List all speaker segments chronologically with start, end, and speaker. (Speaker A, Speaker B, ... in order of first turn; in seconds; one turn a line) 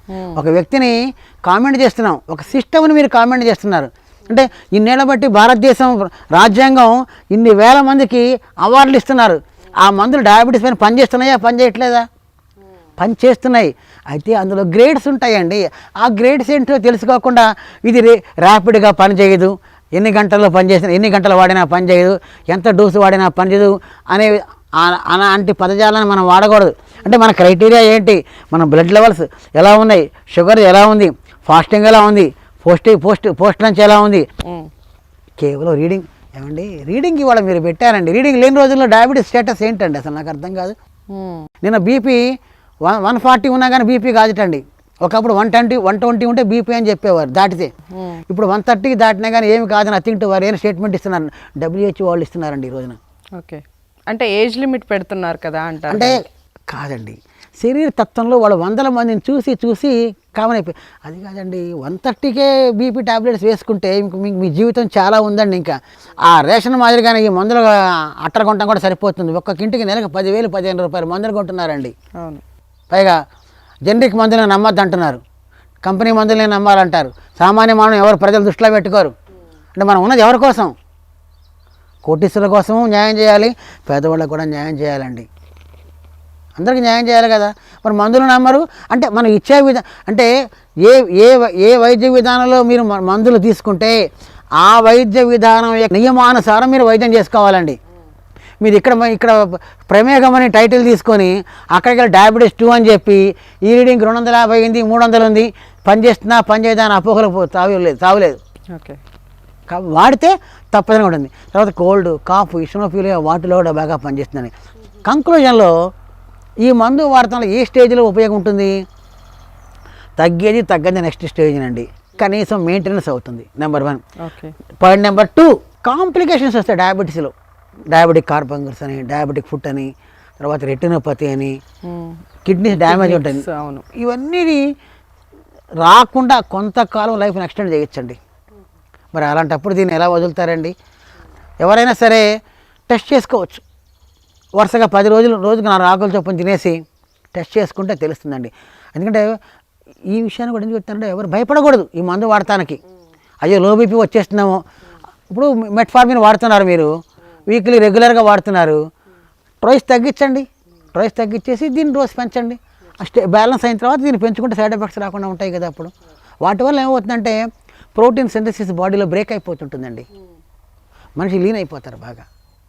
Speaker A: 0.1-0.4
Speaker B: 0.3-12.1
Speaker B: 13.0-34.3
Speaker B: 35.4-40.8
Speaker A: 41.1-41.5
Speaker B: 41.6-42.2
Speaker B: 42.9-47.7
Speaker A: 47.9-48.2
Speaker B: 48.3-53.0
Speaker A: 53.4-56.2
Speaker B: 55.9-71.9
Speaker B: 72.9-73.2
Speaker B: 73.9-75.2
Speaker B: 75.8-79.1
Speaker B: 79.8-80.7
Speaker B: 82.0-85.3
Speaker B: 86.6-90.3
Speaker B: 90.8-94.0
Speaker B: 94.6-97.8
Speaker B: 98.6-108.4
Speaker A: 108.7-109.0
Speaker B: 109.7-114.5
Speaker B: 115.0-115.7
Speaker B: 116.6-118.7
Speaker B: 120.2-124.0
Speaker A: 124.2-124.5
Speaker B: 124.8-127.3
Speaker B: 127.9-131.6
Speaker A: 131.8-132.2
Speaker B: 132.5-133.4
Speaker A: 132.7-133.8
Speaker B: 133.9-134.6
Speaker B: 135.8-138.2
Speaker B: 139.1-140.7
Speaker B: 141.6-142.3
Speaker B: 142.9-143.6
Speaker B: 144.6-146.8
Speaker B: 147.3-149.3
Speaker B: 150.1-152.8
Speaker B: 153.4-154.6
Speaker B: 155.3-156.9
Speaker B: 157.5-158.8
Speaker B: 159.6-165.9
Speaker B: 166.4-167.4
Speaker B: 167.9-170.1
Speaker B: 171.2-172.3